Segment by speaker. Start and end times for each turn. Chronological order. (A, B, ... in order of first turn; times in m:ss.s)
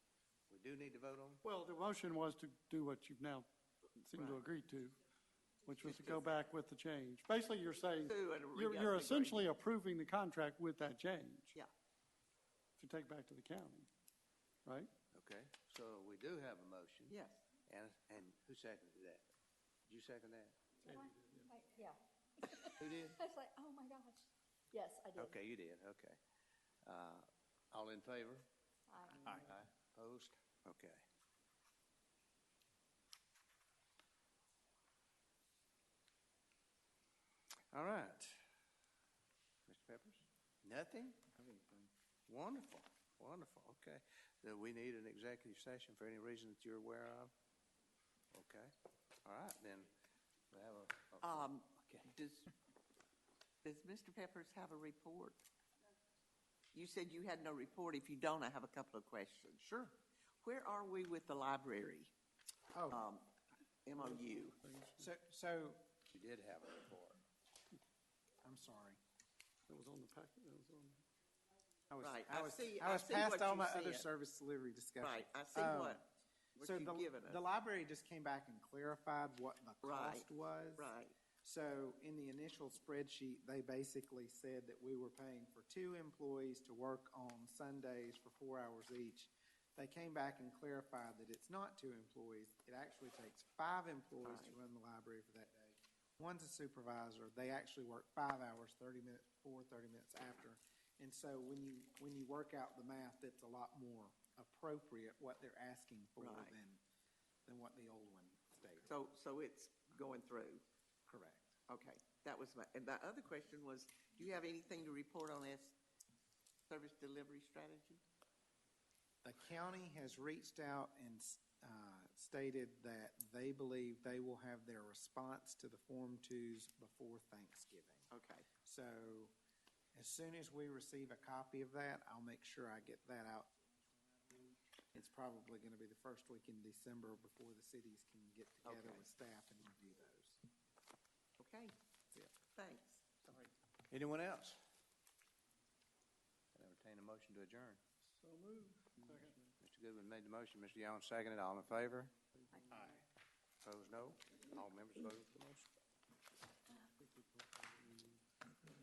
0:00.5-0:01.4 A
0:01.4-0:05.0 B
0:04.1-0:04.4 C
0:05.6-0:11.6 B
0:05.8-0:06.3 C
0:08.0-0:09.5 C
0:12.8-0:13.9 B
0:14.7-0:14.9 B
0:15.1-0:17.2 A
0:17.1-0:17.4 C
0:17.7-0:19.3 A
0:19.9-0:20.6 A
0:20.8-0:21.5 B
0:20.9-0:25.4 D
0:22.8-0:23.2 A
0:25.2-0:26.2 A
0:26.8-0:28.5 A
0:28.9-0:29.2 D
0:29.2-0:31.0 A
0:37.7-0:38.4 A
0:39.7-0:41.2 A
0:41.3-0:41.9 E
0:42.3-0:47.3 A
0:48.3-0:48.7 A
0:49.2-0:49.9 A
0:50.5-0:52.5 A
0:51.2-0:51.7 C
0:53.6-0:55.4 C
0:56.7-0:59.6 C
0:59.6-0:59.9 E
1:00.4-1:02.1 C
1:02.7-1:03.0 E
1:02.9-1:03.3 C
1:03.9-1:04.6 C
1:04.0-1:05.1 B
1:05.0-1:05.8 E
1:06.1-1:07.2 A
1:08.4-1:09.0 E
1:09.7-1:11.0 B
1:11.9-1:16.0 E
1:12.0-1:14.1 C
1:15.0-1:16.1 C
1:16.6-1:17.4 C
1:16.6-1:46.8 E
1:19.8-1:21.2 C
1:34.2-1:34.6 C
1:46.2-1:46.6 C
1:47.5-1:49.0 E
1:48.8-1:50.6 C
1:51.1-1:51.6 E
1:51.7-1:55.8 C
1:56.7-1:58.0 C
1:59.2-2:08.1 E
2:08.1-2:08.5 C
2:08.6-2:09.3 E
2:09.9-2:13.6 E
2:14.2-2:20.4 E
2:18.6-2:19.0 C
2:21.4-2:21.8 C
2:22.6-2:23.5 C
2:23.9-2:24.6 A
2:26.6-2:27.8 A
2:28.1-2:29.5 B
2:29.6-2:32.1 A
2:32.4-2:32.9 B
2:32.7-2:33.0 E
2:33.6-2:35.7 A
2:37.0-2:38.2 B